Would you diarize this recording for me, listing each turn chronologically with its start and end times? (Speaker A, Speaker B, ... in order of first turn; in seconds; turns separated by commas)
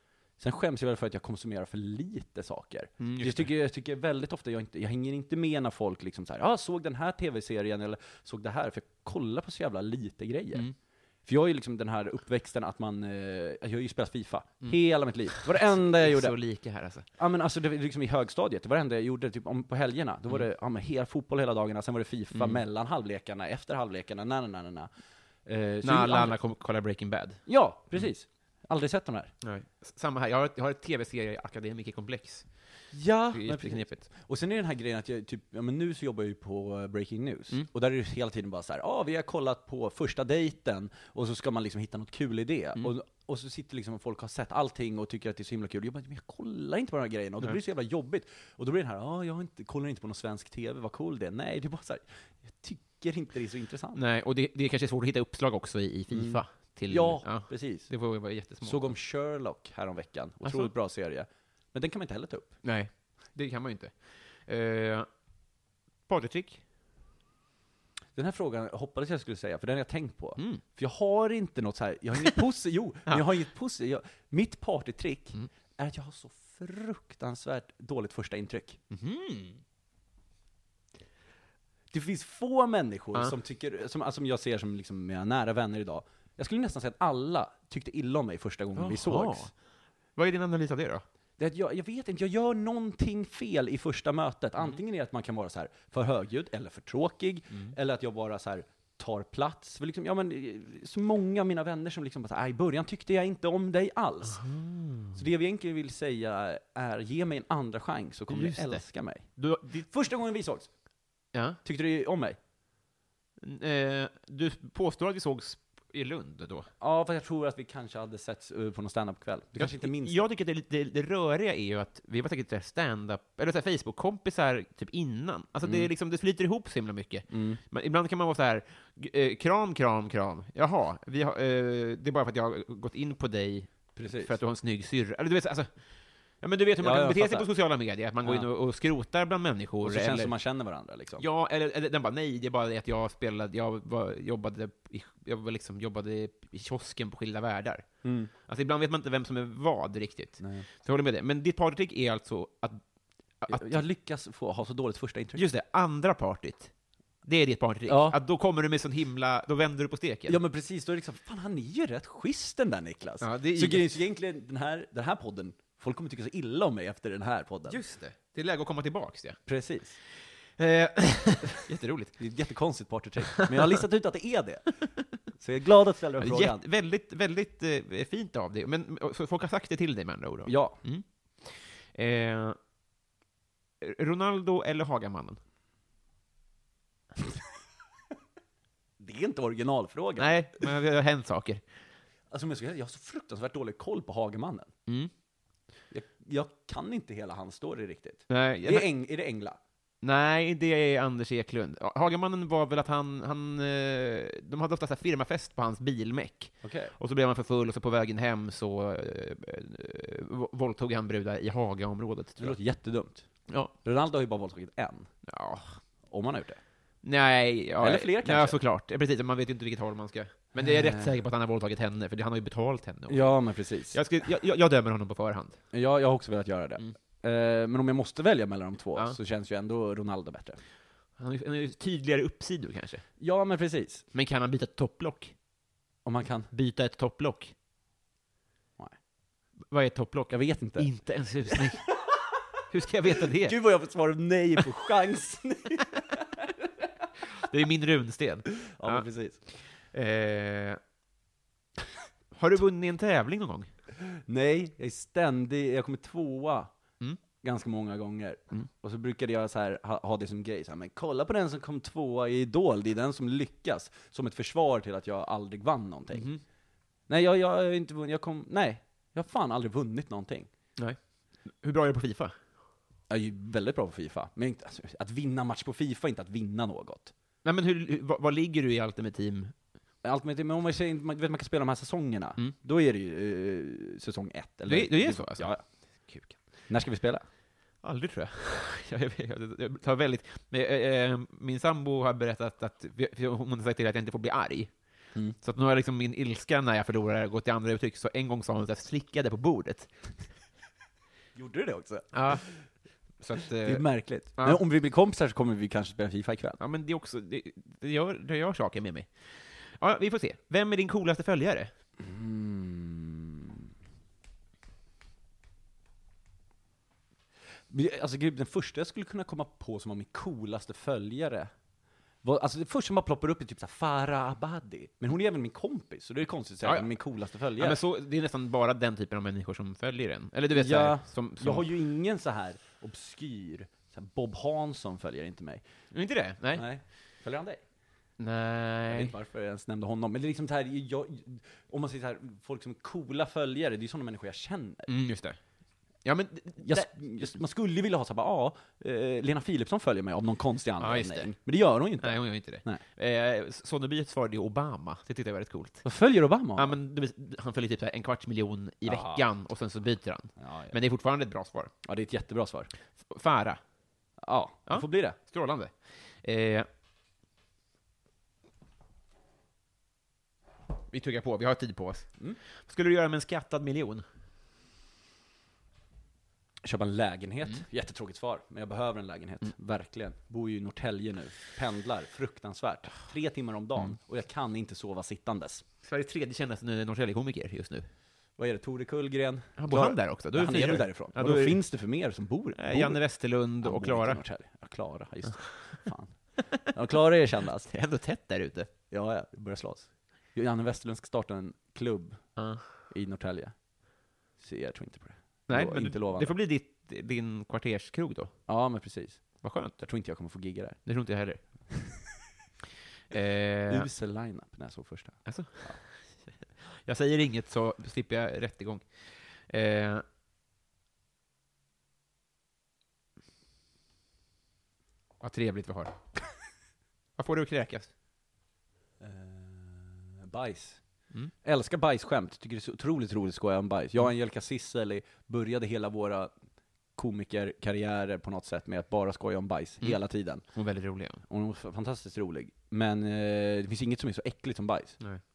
Speaker A: 0.4-10.7, Speaker B: 3.0-3.5, Speaker A: 11.2-16.4, Speaker B: 15.3-17.1, Speaker A: 17.1-24.9, Speaker B: 22.3-22.6, Speaker A: 25.5-26.4, Speaker B: 25.8-27.4, Speaker A: 27.5-29.3, Speaker B: 29.4-34.1, Speaker A: 32.9-54.0, Speaker B: 53.9-59.0, Speaker A: 56.1-57.9, Speaker A: 58.6-62.6, Speaker B: 60.5-60.7, Speaker B: 62.6-65.1, Speaker B: 66.1-66.6, Speaker A: 68.2-78.8, Speaker B: 70.4-70.6, Speaker B: 78.9-79.6, Speaker A: 81.9-89.5, Speaker B: 88.8-89.6, Speaker B: 90.2-91.0, Speaker A: 91.4-104.4, Speaker B: 97.5-97.8, Speaker B: 104.2-105.2, Speaker A: 105.1-110.7, Speaker B: 108.3-109.9, Speaker B: 111.3-111.6, Speaker A: 111.6-112.4, Speaker B: 113.4-116.7, Speaker A: 116.8-120.2, Speaker B: 119.5-135.8, Speaker A: 125.6-125.9, Speaker A: 127.3-127.6, Speaker A: 134.0-134.3, Speaker B: 136.4-140.3, Speaker A: 136.8-137.5, Speaker A: 138.2-138.5, Speaker A: 139.8-141.2, Speaker B: 141.2-152.8, Speaker A: 148.0-148.3, Speaker A: 150.4-150.7, Speaker B: 153.4-153.8, Speaker A: 153.5-155.5, Speaker B: 155.4-156.7, Speaker B: 157.2-160.4, Speaker A: 157.9-158.2, Speaker A: 160.3-167.8, Speaker B: 163.2-163.9, Speaker B: 167.7-169.4, Speaker A: 169.5-170.0, Speaker B: 170.1-172.2, Speaker A: 172.2-176.6, Speaker B: 173.4-173.7, Speaker B: 176.2-182.6, Speaker A: 180.5-180.8, Speaker B: 183.8-185.4, Speaker A: 189.0-190.4, Speaker B: 190.2-191.7, Speaker A: 192.3-194.7, Speaker B: 194.9-195.1, Speaker A: 195.9-199.6, Speaker B: 198.3-198.9, Speaker B: 200.0-212.6, Speaker A: 206.6-206.9, Speaker A: 212.4-215.1, Speaker B: 213.5-213.7, Speaker B: 215.2-215.8, Speaker A: 216.1-216.6, Speaker B: 217.0-225.6, Speaker A: 217.8-218.6, Speaker A: 220.6-221.2, Speaker A: 223.1-224.0, Speaker A: 225.7-230.6, Speaker B: 231.2-233.1, Speaker A: 233.2-234.1, Speaker B: 234.1-235.3, Speaker A: 236.1-236.5, Speaker B: 236.5-237.5, Speaker B: 239.7-242.1, Speaker A: 240.3-240.9, Speaker B: 242.7-243.6, Speaker A: 243.2-246.2, Speaker B: 247.3-250.8, Speaker A: 248.6-249.4, Speaker B: 252.3-253.7, Speaker A: 254.0-256.7, Speaker A: 257.4-266.3, Speaker B: 266.1-266.4, Speaker A: 267.1-270.5, Speaker B: 270.8-272.4, Speaker A: 273.1-277.1, Speaker B: 277.4-279.6, Speaker A: 280.0-285.6, Speaker B: 284.7-286.4, Speaker A: 286.7-287.3, Speaker B: 287.8-294.8, Speaker B: 295.4-300.1, Speaker A: 301.4-302.6, Speaker B: 302.1-302.5, Speaker B: 303.2-304.6, Speaker A: 303.6-306.6, Speaker B: 306.6-311.7, Speaker A: 312.0-313.6, Speaker A: 317.7-321.5, Speaker A: 322.2-327.8, Speaker B: 326.6-326.9, Speaker B: 327.6-331.7, Speaker A: 330.5-335.6, Speaker B: 335.9-336.7, Speaker A: 336.5-337.6, Speaker B: 338.2-339.1, Speaker A: 338.9-344.9, Speaker B: 344.9-345.4, Speaker B: 346.0-347.3, Speaker A: 346.6-352.8, Speaker B: 350.8-351.4, Speaker B: 352.0-355.9, Speaker A: 355.8-356.8, Speaker B: 356.6-361.7, Speaker A: 358.9-359.2, Speaker A: 360.4-360.8, Speaker A: 361.8-362.7, Speaker B: 363.0-363.6, Speaker A: 364.2-365.2, Speaker B: 364.7-366.7, Speaker B: 370.9-374.1, Speaker A: 376.6-385.6, Speaker B: 385.8-387.9, Speaker A: 388.4-397.7, Speaker B: 389.6-391.6, Speaker B: 392.6-394.2, Speaker B: 397.7-398.7, Speaker A: 398.9-403.6, Speaker B: 402.4-402.7, Speaker A: 404.4-406.4, Speaker B: 405.5-408.4, Speaker A: 408.5-410.8, Speaker B: 409.4-409.8, Speaker B: 410.9-411.4, Speaker B: 413.1-413.9, Speaker A: 413.7-415.8, Speaker B: 415.3-420.0, Speaker B: 425.2-426.0, Speaker B: 427.2-427.9, Speaker A: 429.0-430.8, Speaker A: 431.4-436.3, Speaker A: 436.9-440.5, Speaker B: 439.8-441.2, Speaker A: 441.2-445.0